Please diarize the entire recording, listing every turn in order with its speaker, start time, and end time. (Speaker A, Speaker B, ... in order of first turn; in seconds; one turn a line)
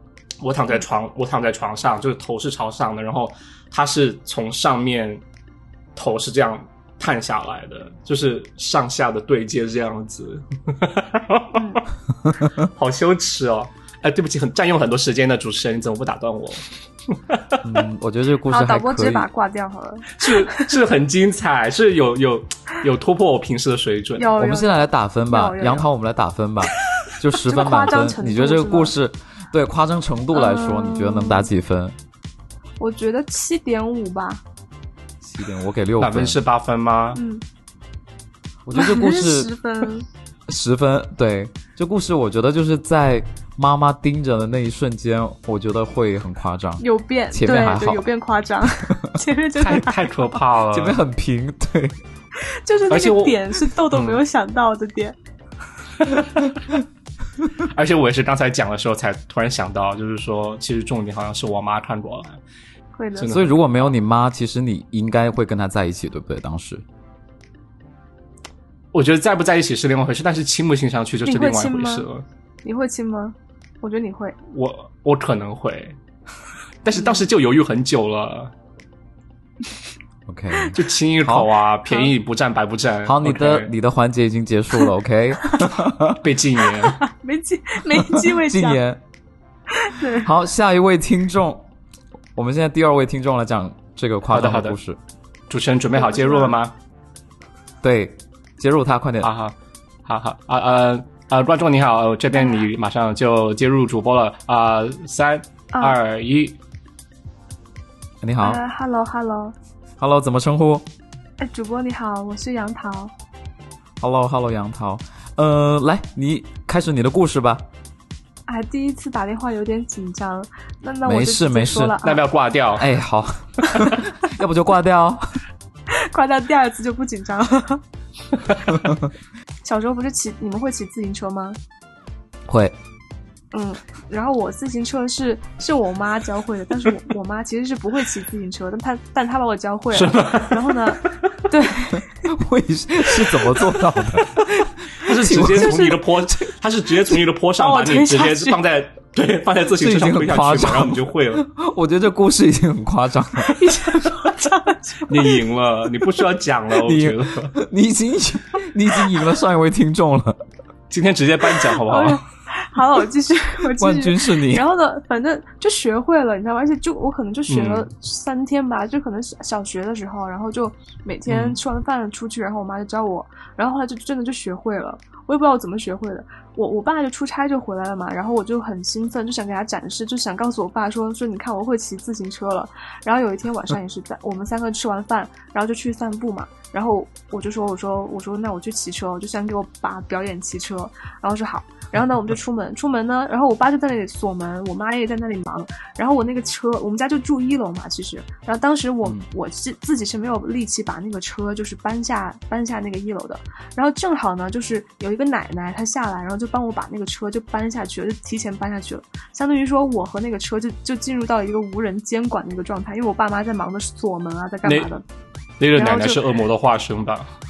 Speaker A: 0.4-5.2
Speaker A: 6.0-11.8
Speaker B: 11.5-11.8
Speaker A: 12.4-16.6
Speaker A: 17.1-17.6
Speaker C: 17.6-19.3
Speaker B: 18.5-20.7
Speaker A: 20.1-24.3
Speaker B: 24.2-25.9
Speaker C: 24.4-31.9
Speaker B: 27.4-28.9
Speaker B: 30.3-31.5
Speaker B: 32.8-34.4
Speaker C: 35.2-36.4
Speaker A: 36.0-37.2
Speaker B: 37.1-37.4
Speaker C: 38.6-39.5
Speaker B: 38.7-40.1
Speaker C: 40.5-48.0
Speaker B: 46.8-50.2
Speaker A: 49.6-51.0
Speaker C: 50.7-52.0
Speaker B: 52.4-55.1
Speaker A: 52.9-54.2
Speaker A: 56.0-56.4
Speaker A: 57.6-62.4
Speaker B: 63.0-63.5
Speaker A: 63.1-63.5
Speaker C: 63.3-66.8
Speaker A: 68.9-72.2
Speaker B: 71.2-72.1
Speaker B: 72.6-74.3
Speaker A: 74.5-76.0
Speaker A: 76.8-78.5
Speaker C: 80.3-81.5
Speaker A: 80.7-83.7
Speaker C: 83.0-86.2
Speaker A: 86.2-87.0
Speaker B: 87.0-88.8
Speaker C: 88.0-89.0
Speaker B: 89.7-90.3
Speaker C: 90.2-91.7
Speaker C: 92.3-95.0
Speaker A: 94.3-94.8
Speaker A: 95.5-96.7
Speaker B: 95.9-96.5
Speaker C: 97.8-99.3
Speaker A: 99.2-99.5
Speaker A: 100.0-106.6
Speaker C: 108.2-108.6
Speaker B: 108.4-109.5
Speaker C: 110.0-110.8
Speaker B: 111.4-113.1
Speaker C: 114.0-117.6
Speaker B: 118.5-122.2
Speaker C: 121.0-122.0
Speaker A: 122.0-122.9
Speaker C: 122.8-125.4
Speaker B: 125.9-127.8
Speaker B: 129.6-131.6
Speaker C: 132.5-132.8
Speaker B: 133.5-142.2
Speaker A: 139.9-140.8
Speaker C: 142.2-145.8
Speaker A: 145.0-151.4
Speaker B: 145.4-146.1
Speaker B: 147.6-148.6
Speaker C: 149.8-153.7
Speaker B: 153.4-155.4
Speaker A: 155.1-157.5
Speaker C: 156.8-160.4
Speaker A: 160.9-162.2
Speaker B: 161.8-215.0
Speaker C: 163.8-164.7
Speaker A: 167.5-167.9
Speaker A: 171.3-171.6
Speaker A: 214.6-214.9
Speaker A: 215.6-217.3
Speaker B: 215.7-216.2